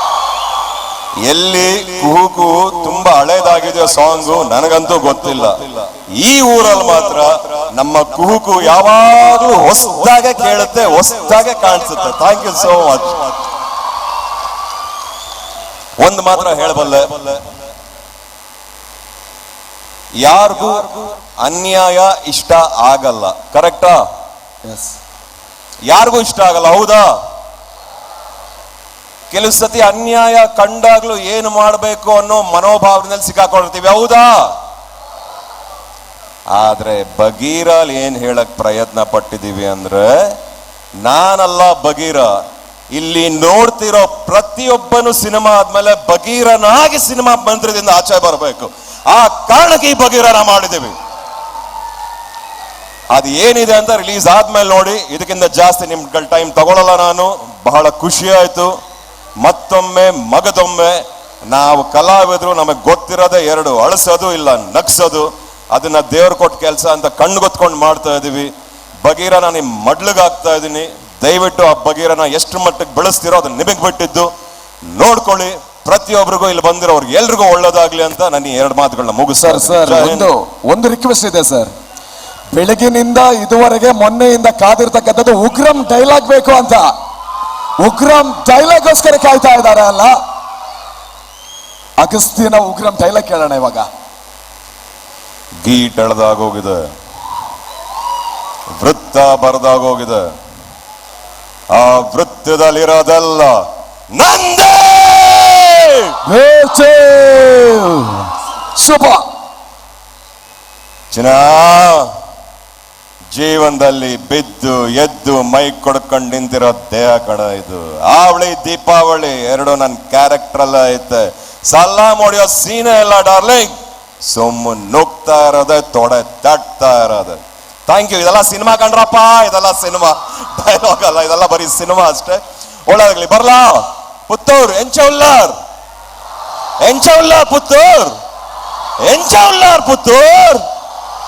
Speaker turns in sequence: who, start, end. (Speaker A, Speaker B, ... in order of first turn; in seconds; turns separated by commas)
Speaker A: 1.2-13.3, Speaker A: 16.0-17.4, Speaker A: 20.2-24.0, Speaker B: 24.7-24.9, Speaker A: 25.9-27.1, Speaker A: 29.3-34.5, Speaker A: 36.5-40.3, Speaker A: 41.0-42.3, Speaker A: 42.9-50.9, Speaker A: 53.1-58.7, Speaker A: 59.4-68.5, Speaker A: 69.0-74.3, Speaker A: 74.9-80.3, Speaker B: 79.4-81.7, Speaker B: 82.5-87.0, Speaker B: 87.8-90.2, Speaker B: 92.0-93.9, Speaker A: 95.6-96.8, Speaker A: 98.8-100.2, Speaker A: 101.7-106.1, Speaker B: 106.2-109.3, Speaker A: 111.1-112.0, Speaker A: 113.3-135.5, Speaker A: 136.8-138.1, Speaker A: 139.0-140.6